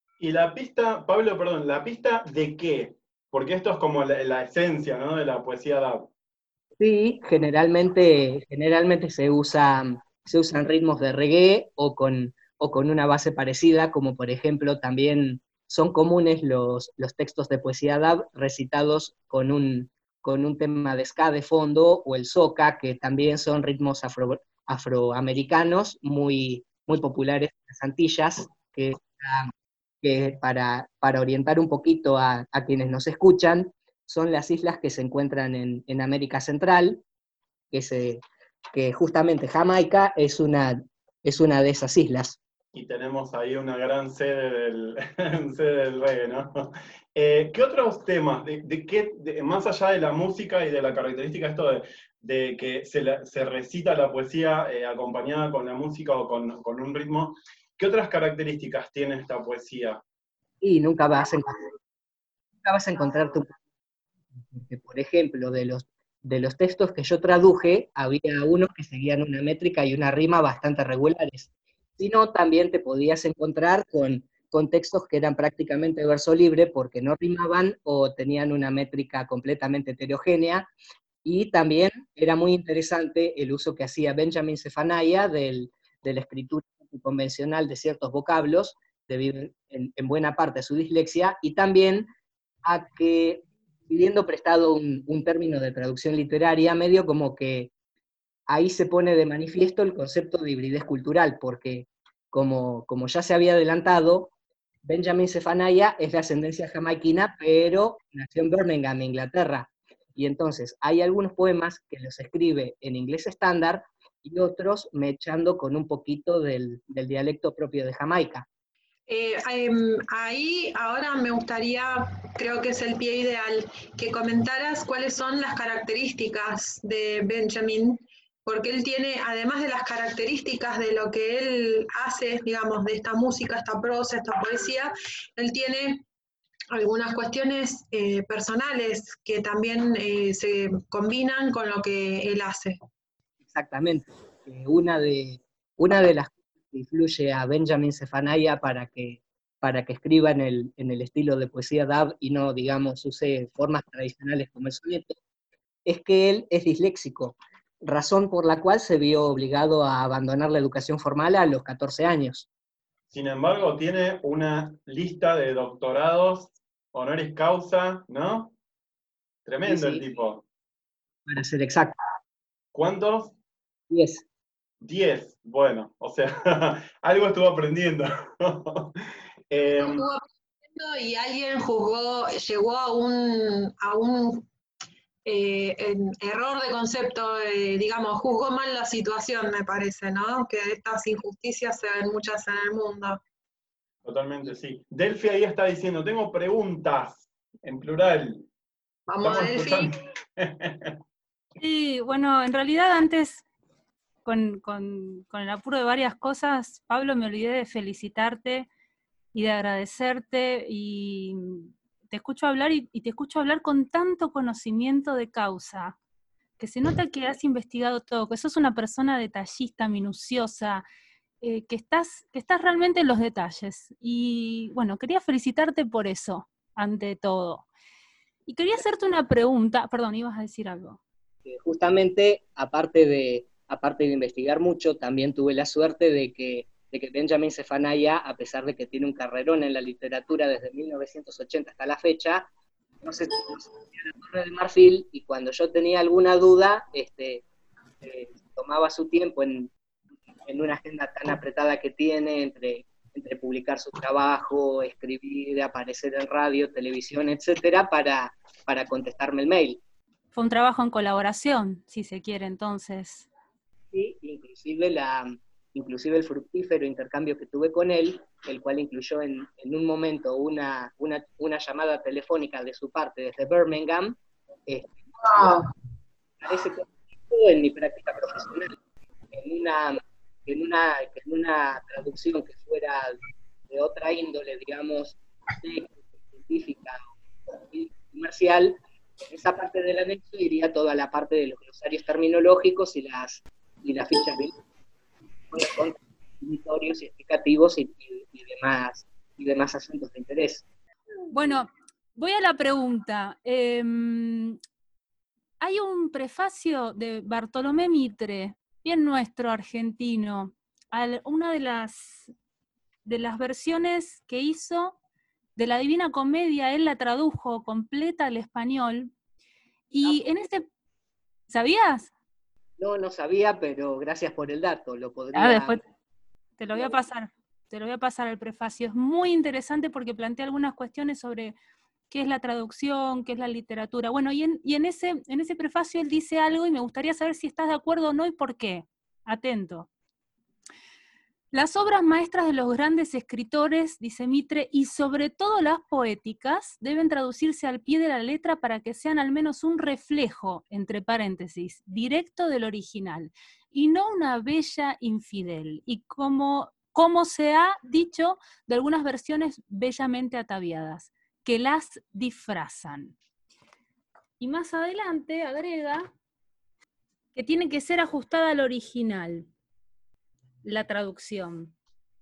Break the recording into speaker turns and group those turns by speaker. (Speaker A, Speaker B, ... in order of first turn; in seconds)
Speaker A: 0.2-6.1, 42.7-60.0, 163.1-168.5, 169.4-170.4, 172.7-173.3, 174.8-179.0, 179.5-180.0, 194.0-198.4, 199.2-200.9
Speaker B: 6.8-37.0, 37.7-38.2, 38.7-42.4, 60.6-61.7, 62.6-63.5, 64.5-80.7, 81.2-92.1, 92.6-97.7, 98.5-104.3, 104.8-118.5, 143.4-155.2, 155.8-162.5, 169.6-170.0, 171.2-171.9, 173.9-174.2, 231.4-242.5, 243.0-247.4, 248.0-249.7, 250.4-259.8, 263.9-275.6, 276.4-278.7, 279.3-283.2, 283.7-294.6, 295.5-300.6, 322.8-325.8
Speaker C: 119.1-136.0, 136.7-142.8, 179.7-184.5, 185.2-193.2, 199.1-199.9
Speaker D: 201.6-203.4, 204.2-208.7, 209.3-216.0, 216.6-220.8, 221.4-227.7, 228.5-231.0, 260.3-263.3, 301.3-304.6, 305.6-312.3, 313.0-315.0, 315.6-319.1, 319.9-320.6, 321.5-322.1, 325.3-325.8, 326.6-331.5, 332.1-339.9, 341.5-363.1, 364.4-366.1, 367.3-369.5, 370.6-371.7